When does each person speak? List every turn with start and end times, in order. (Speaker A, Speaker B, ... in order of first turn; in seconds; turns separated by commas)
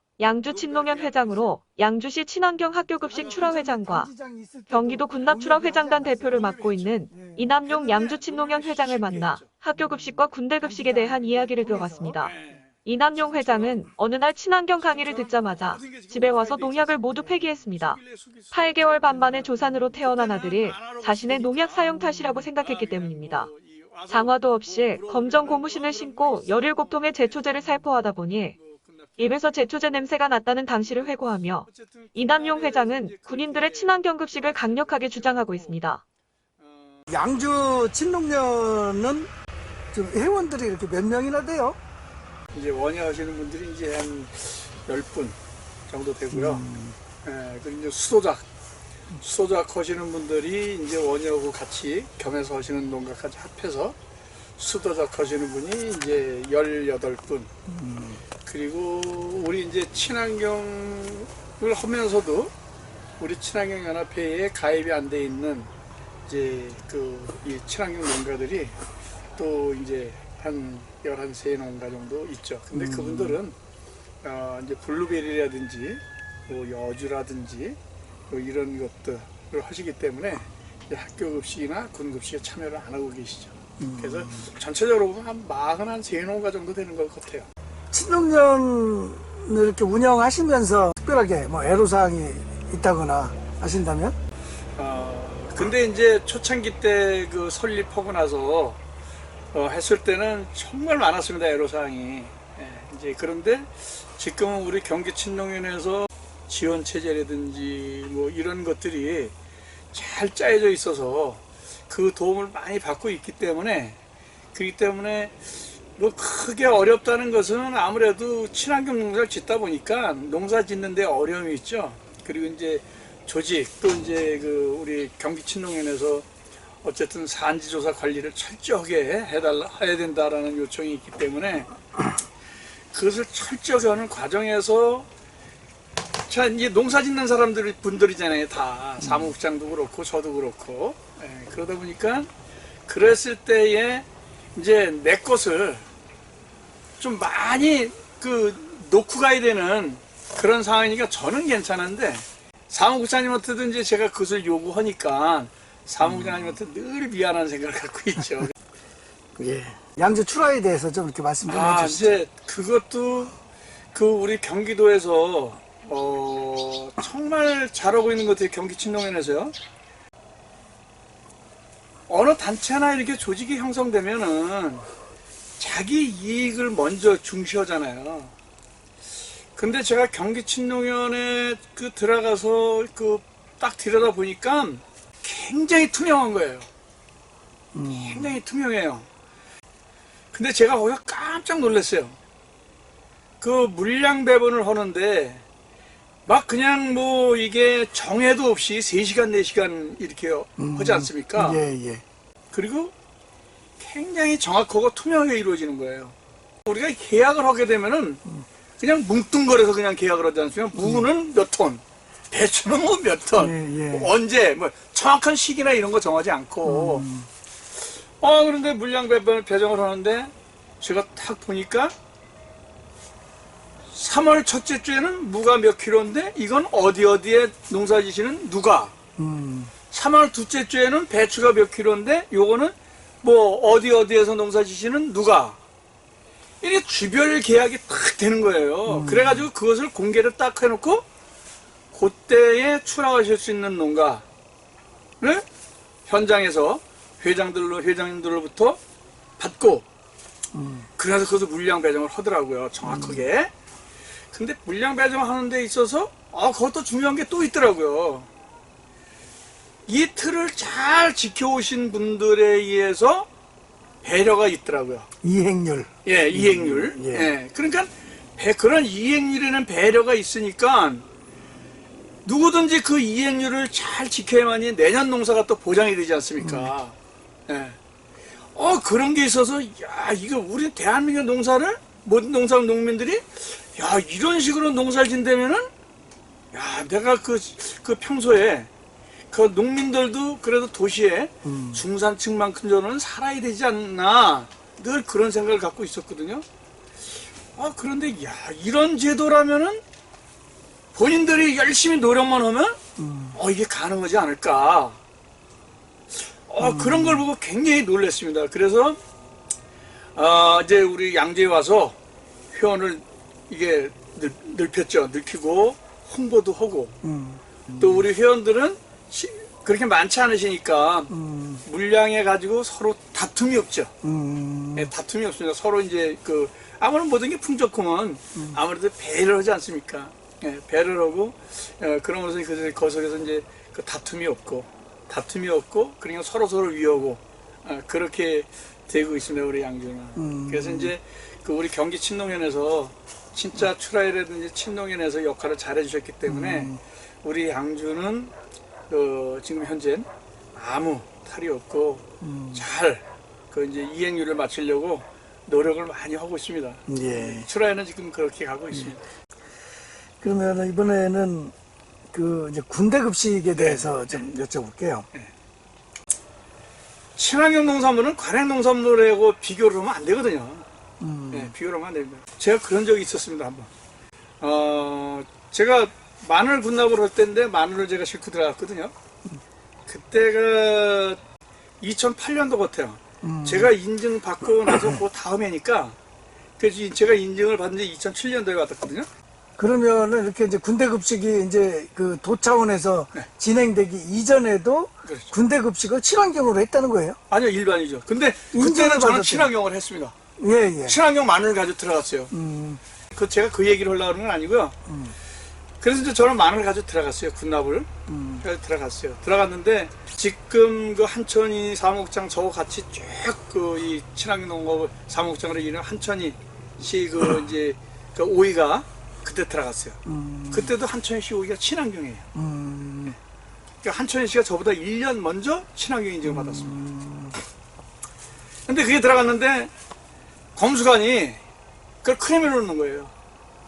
Speaker A: 0.2-4.1, Speaker B: 0.5-1.6, Speaker B: 3.1-3.6, Speaker C: 3.1-6.6, Speaker A: 4.7-18.0, Speaker B: 6.3-7.0, Speaker C: 7.1-7.6, Speaker B: 7.6-9.6, Speaker C: 9.1-12.6, Speaker B: 12.2-13.9, Speaker B: 14.7-28.0, Speaker A: 18.5-23.5, Speaker A: 24.1-28.6, Speaker B: 28.5-30.0, Speaker A: 29.2-36.0, Speaker B: 30.9-35.8, Speaker B: 36.6-37.1, Speaker C: 37.1-39.3, Speaker C: 39.9-41.8, Speaker B: 42.5-46.7, Speaker C: 46.3-47.0, Speaker B: 47.2-48.5, Speaker B: 49.2-54.0, Speaker B: 54.6-57.5, Speaker C: 57.7-58.2, Speaker B: 58.4-62.5, Speaker B: 63.2-65.7, Speaker B: 66.3-68.8, Speaker B: 69.4-73.6, Speaker C: 72.7-73.4, Speaker B: 74.2-77.8, Speaker B: 78.3-87.5, Speaker C: 83.8-84.5, Speaker C: 87.9-94.2, Speaker B: 94.8-98.8, Speaker B: 99.5-109.3, Speaker B: 109.9-114.0, Speaker B: 114.5-126.3, Speaker B: 126.8-131.7, Speaker B: 132.9-135.1, Speaker B: 136.3-142.3, Speaker C: 139.0-139.3, Speaker B: 142.9-145.9, Speaker B: 147.0-158.5, Speaker C: 156.0-156.6, Speaker C: 159.4-162.2, Speaker B: 161.5-163.4, Speaker B: 163.9-169.6, Speaker B: 172.1-174.9, Speaker B: 175.6-178.3, Speaker B: 179.5-186.7, Speaker C: 187.7-188.4, Speaker B: 187.8-189.1, Speaker B: 190.3-192.2, Speaker B: 193.4-195.4, Speaker B: 196.3-201.6, Speaker C: 200.6-202.0, Speaker B: 202.5-202.9, Speaker B: 203.8-208.2, Speaker B: 208.8-217.1, Speaker C: 210.8-211.1, Speaker C: 213.4-214.1, Speaker C: 216.6-217.3, Speaker B: 218.0-221.9, Speaker B: 223.9-228.9, Speaker C: 229.2-229.7, Speaker B: 229.9-235.6, Speaker B: 236.6-241.1, Speaker C: 238.9-239.5, Speaker B: 241.9-244.2, Speaker B: 245.2-245.4, Speaker B: 246.1-248.8, Speaker B: 249.4-249.9, Speaker C: 250.5-250.9, Speaker B: 251.0-253.5, Speaker C: 252.8-253.3, Speaker B: 254.3-258.3, Speaker B: 259.9-263.3, Speaker B: 264.0-265.1, Speaker C: 265.2-267.4, Speaker B: 266.1-271.1, Speaker B: 272.2-277.8, Speaker C: 276.4-276.7, Speaker B: 278.5-285.7, Speaker B: 286.5-288.7, Speaker B: 289.3-296.4, Speaker C: 291.4-291.8, Speaker B: 297.5-299.8, Speaker B: 300.9-302.8, Speaker C: 303.0-303.4, Speaker B: 303.3-305.0, Speaker B: 306.1-309.0, Speaker C: 306.6-307.3, Speaker B: 310.1-312.0, Speaker B: 312.5-317.0, Speaker C: 317.0-318.1, Speaker B: 317.8-323.9, Speaker C: 321.1-321.6, Speaker C: 324.0-324.9, Speaker B: 324.7-348.3, Speaker C: 328.4-328.6, Speaker C: 340.2-340.9, Speaker C: 346.3-346.8, Speaker B: 348.9-359.0, Speaker C: 352.2-352.6, Speaker C: 356.9-357.5, Speaker C: 360.2-361.5, Speaker C: 362.1-365.1, Speaker B: 363.5-364.2, Speaker B: 367.2-370.7, Speaker C: 371.0-371.5, Speaker B: 371.3-373.7, Speaker B: 374.4-378.9, Speaker B: 379.9-381.2, Speaker B: 381.8-386.0, Speaker C: 383.2-383.7, Speaker C: 384.5-385.0, Speaker B: 386.6-389.1, Speaker C: 389.6-397.2, Speaker B: 395.0-395.3, Speaker B: 397.3-400.1, Speaker C: 398.5-399.5, Speaker C: 400.4-401.0, Speaker B: 400.8-402.3, Speaker C: 402.3-402.8, Speaker B: 403.1-404.8, Speaker C: 404.9-405.1, Speaker B: 405.8-407.9, Speaker C: 408.1-408.4, Speaker B: 408.4-420.0, Speaker C: 420.1-420.7, Speaker B: 420.5-422.3, Speaker C: 422.4-423.2, Speaker B: 423.8-426.9, Speaker C: 426.2-427.4, Speaker B: 428.7-429.7, Speaker B: 430.6-431.4, Speaker B: 432.0-433.1